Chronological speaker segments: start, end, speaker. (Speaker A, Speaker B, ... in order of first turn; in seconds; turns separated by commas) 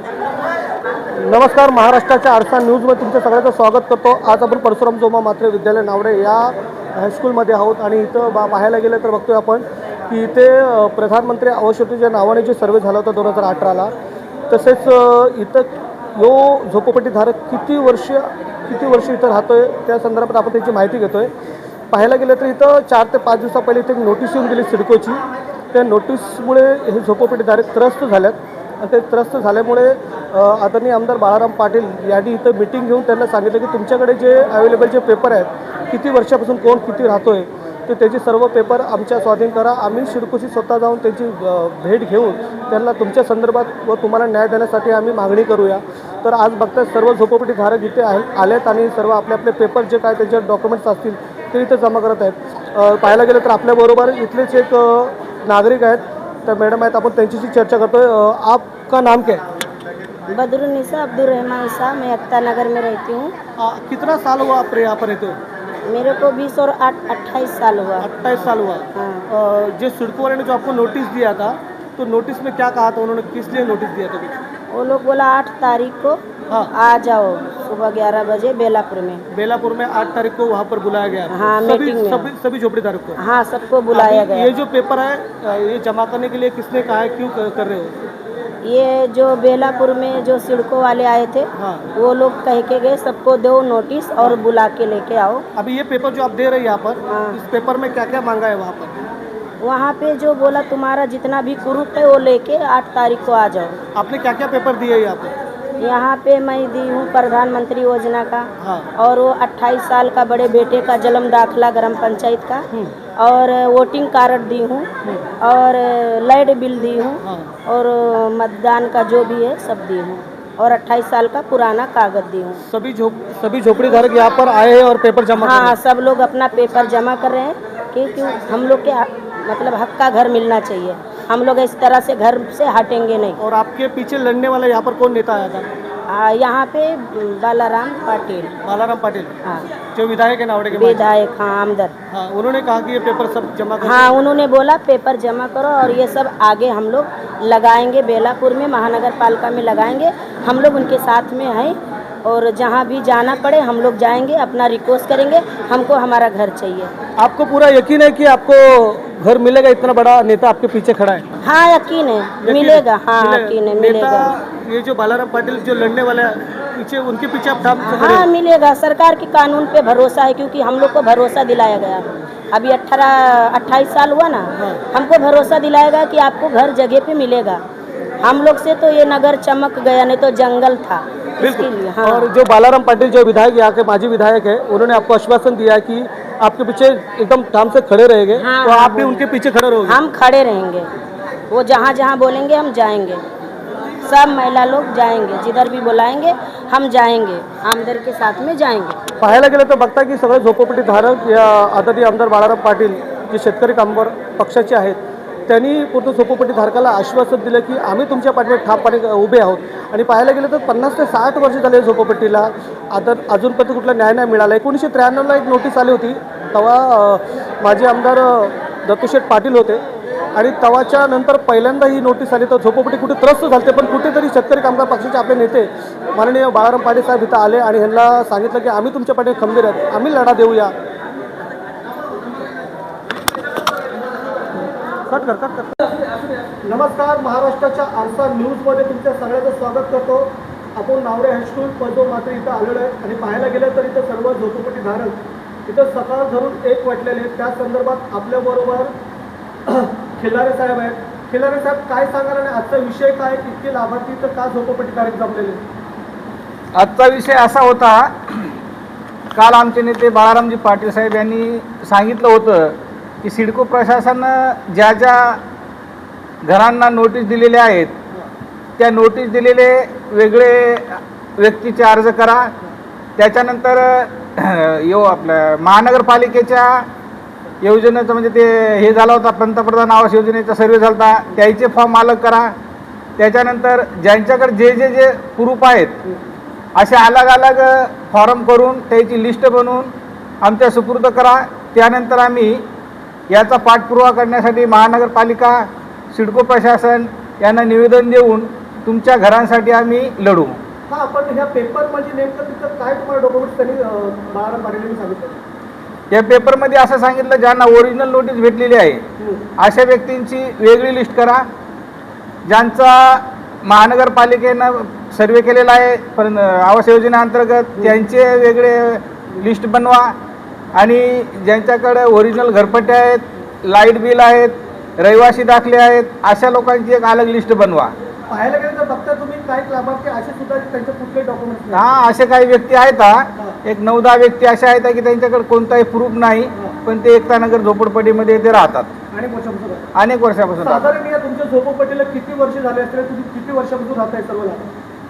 Speaker A: 1.2-13.9, Speaker A: 14.5-21.3, Speaker A: 21.9-59.4, Speaker B: 60.3-63.3, Speaker A: 63.6-65.4, Speaker B: 65.9-68.1, Speaker A: 68.0-74.4, Speaker B: 68.9-69.2, Speaker B: 74.7-76.2, Speaker B: 76.7-79.2, Speaker A: 79.3-83.2, Speaker B: 81.3-82.3, Speaker B: 83.2-84.5, Speaker A: 83.9-88.0, Speaker B: 88.6-95.4, Speaker A: 91.6-91.9, Speaker A: 95.5-99.0, Speaker B: 97.1-97.4, Speaker B: 99.6-103.8, Speaker A: 103.9-105.3, Speaker B: 105.8-112.6, Speaker A: 108.6-108.9, Speaker B: 113.2-114.9, Speaker B: 115.4-122.6, Speaker A: 117.2-117.5, Speaker A: 122.7-125.8, Speaker B: 125.4-133.4, Speaker A: 133.4-135.7, Speaker B: 136.1-138.5, Speaker A: 138.6-139.4, Speaker A: 139.9-141.1, Speaker B: 140.7-141.9, Speaker A: 142.1-144.2, Speaker B: 143.8-156.9, Speaker A: 157.2-161.2, Speaker B: 161.4-164.3, Speaker A: 162.4-168.3, Speaker B: 167.8-177.6, Speaker A: 174.6-174.8, Speaker B: 178.2-182.3, Speaker A: 181.4-190.0, Speaker B: 188.4-189.2, Speaker B: 189.9-190.9, Speaker B: 191.5-193.2, Speaker B: 194.0-199.0, Speaker A: 199.2-219.8, Speaker A: 220.3-230.7, Speaker A: 235.1-235.9, Speaker A: 236.6-248.9, Speaker A: 249.7-255.6, Speaker C: 256.8-258.5, Speaker C: 259.4-265.4, Speaker C: 266.4-267.9, Speaker C: 268.8-272.5, Speaker C: 273.2-276.9, Speaker C: 277.6-282.5, Speaker C: 283.2-286.0, Speaker C: 286.8-292.6, Speaker C: 293.3-300.6, Speaker A: 300.9-305.4, Speaker C: 306.1-309.0, Speaker A: 309.2-309.4, Speaker C: 309.6-311.4, Speaker C: 312.5-320.1, Speaker C: 320.8-327.9, Speaker A: 328.3-331.8, Speaker C: 331.7-338.9, Speaker A: 339.1-339.9, Speaker C: 339.9-340.9, Speaker A: 340.6-344.7